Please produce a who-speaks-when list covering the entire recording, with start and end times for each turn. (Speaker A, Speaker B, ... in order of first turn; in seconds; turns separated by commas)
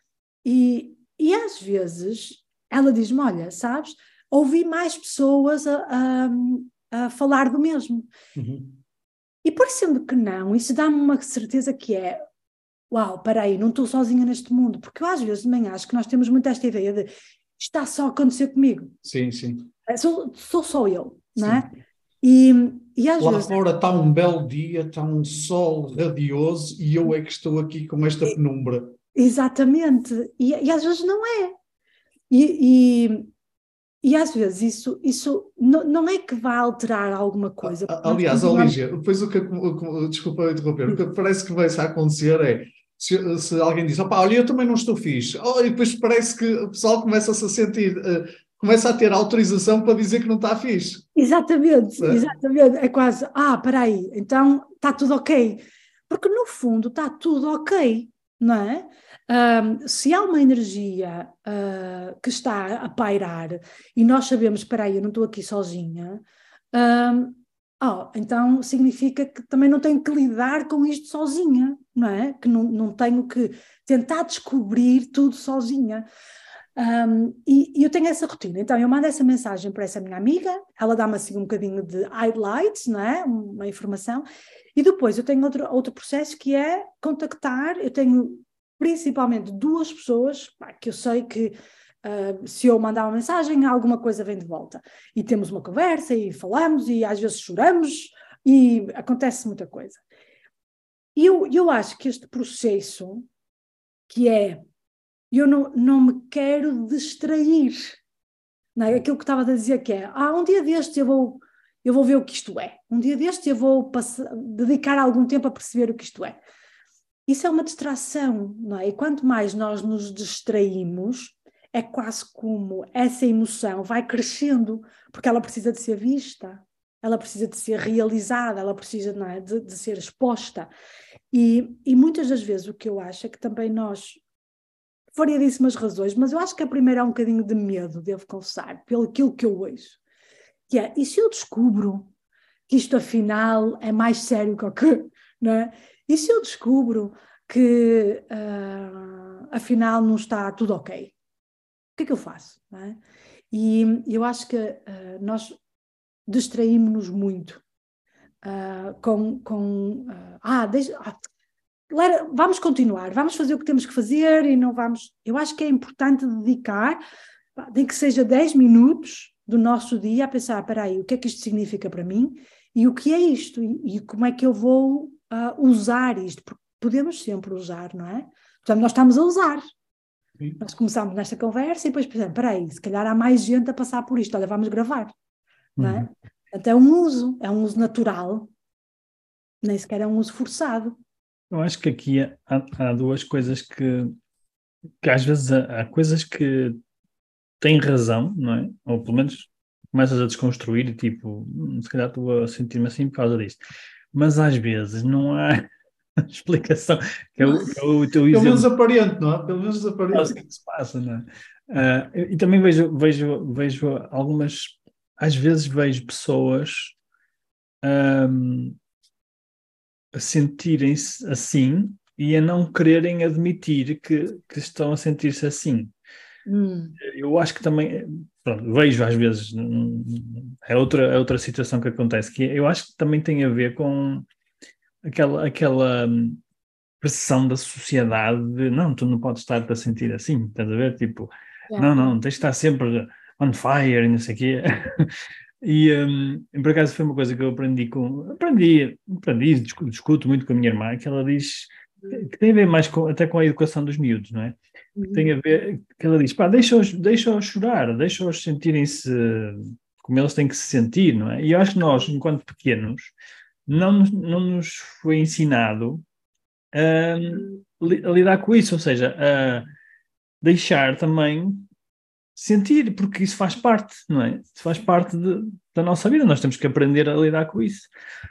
Speaker A: 0.4-8.1, Speaker B: 8.4-8.8, Speaker A: 9.4-12.2, Speaker A: 12.9-18.9, Speaker B: 19.0-19.7, Speaker A: 19.9-23.6, Speaker B: 21.4-21.6, Speaker B: 23.2-28.9, Speaker A: 29.1-31.6, Speaker A: 32.3-33.3, Speaker A: 34.0-38.8, Speaker B: 37.6-51.1, Speaker A: 51.1-76.1, Speaker A: 76.8-100.0, Speaker A: 101.2-103.2, Speaker A: 104.1-104.6, Speaker A: 105.3-108.0, Speaker A: 108.8-116.4, Speaker A: 117.2-130.7, Speaker A: 131.3-134.2, Speaker A: 135.1-140.0, Speaker A: 140.7-142.1, Speaker A: 142.7-151.1, Speaker A: 152.0-153.0, Speaker A: 153.5-155.6, Speaker A: 156.3-157.6, Speaker A: 158.4-161.2, Speaker A: 161.9-167.0, Speaker A: 167.6-179.6, Speaker A: 180.6-185.1, Speaker C: 185.8-186.1, Speaker A: 185.8-188.5, Speaker A: 189.6-190.9, Speaker C: 191.5-194.2, Speaker C: 195.0-196.8, Speaker C: 197.6-203.6, Speaker C: 204.1-205.7, Speaker C: 206.2-208.7, Speaker A: 207.4-207.7, Speaker B: 208.3-210.4, Speaker C: 210.1-216.9, Speaker C: 217.8-218.8, Speaker C: 220.1-225.9, Speaker A: 226.5-227.0, Speaker C: 227.0-234.3, Speaker C: 235.0-236.4, Speaker C: 237.0-254.6, Speaker A: 241.7-242.1, Speaker A: 255.0-255.2, Speaker C: 255.1-263.1, Speaker C: 263.7-266.0, Speaker C: 266.7-269.7, Speaker C: 270.4-271.7, Speaker C: 272.4-277.9